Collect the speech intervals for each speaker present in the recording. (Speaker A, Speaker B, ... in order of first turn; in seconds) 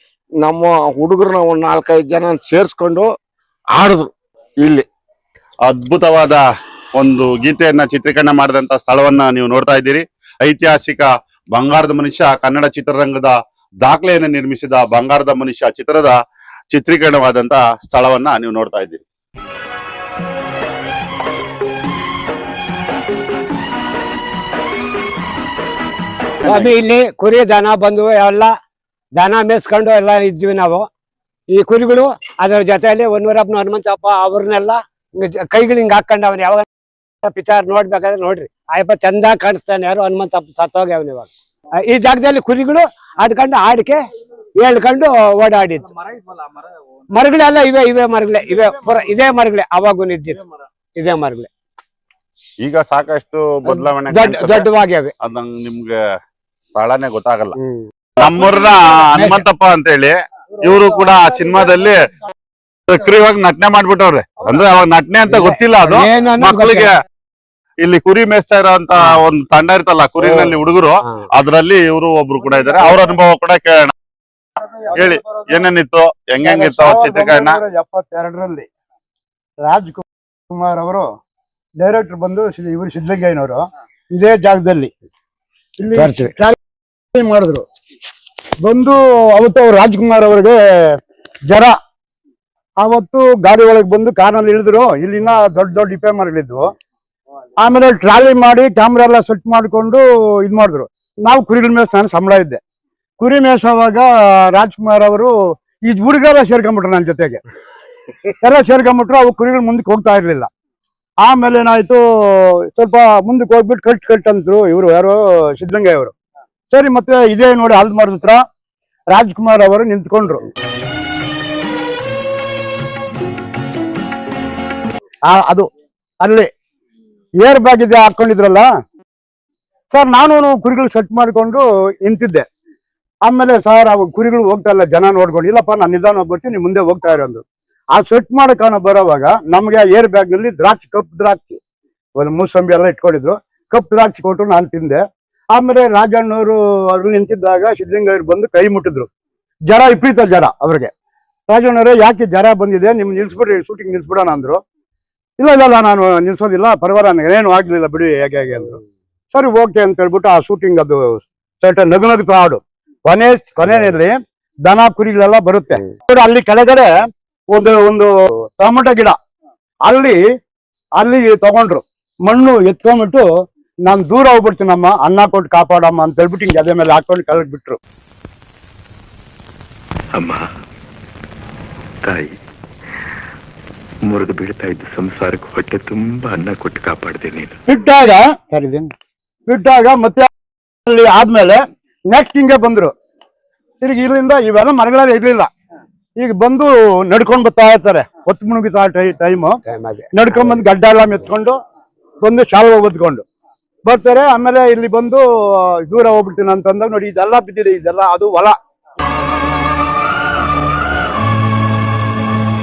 Speaker A: 0.4-3.1, 3.7-4.1
Speaker B: 5.7-6.4, 7.0-16.1, 16.7-19.0, 26.4-26.7, 52.6-54.7, 55.2-56.0, 56.8-57.6, 58.2-62.0, 62.9-66.9, 67.8-73.9, 74.9-77.6
Speaker C: 26.4-28.5, 29.1-30.9, 31.5-36.7, 37.2-41.3, 41.8-44.0, 44.6-45.9, 47.1-50.4, 51.0-51.5, 53.7-55.1, 57.6-57.9, 59.1-59.4, 65.3-66.9, 70.2-70.5, 86.0-86.3, 199.7-200.6
Speaker D: 76.4-78.7, 79.6-81.0, 81.8-83.6, 84.1-84.9, 85.8-86.6, 87.1-87.6, 88.6-91.0, 91.5-91.8, 92.8-96.7, 97.6-102.6, 103.2-105.3, 105.9-107.4, 108.4-110.5, 111.2-116.1, 116.7-118.4, 119.1-120.5, 125.3-125.7, 126.2-126.5, 127.4-128.7, 129.9-132.4, 133.2-137.4, 137.9-141.6, 142.2-145.0, 145.5-149.1, 149.7-150.9, 151.5-154.6, 155.4-158.8, 159.3-166.9, 167.5-169.2, 169.8-170.2, 171.0-173.2, 173.8-177.8, 187.7-188.9, 189.5-190.3, 190.9-191.6, 192.1-192.9, 193.8-195.5, 196.2-199.6, 200.1-201.6, 202.2-203.2, 203.8-205.2, 205.8-208.6
Speaker E: 180.2-180.4, 182.1-182.3, 184.1-187.6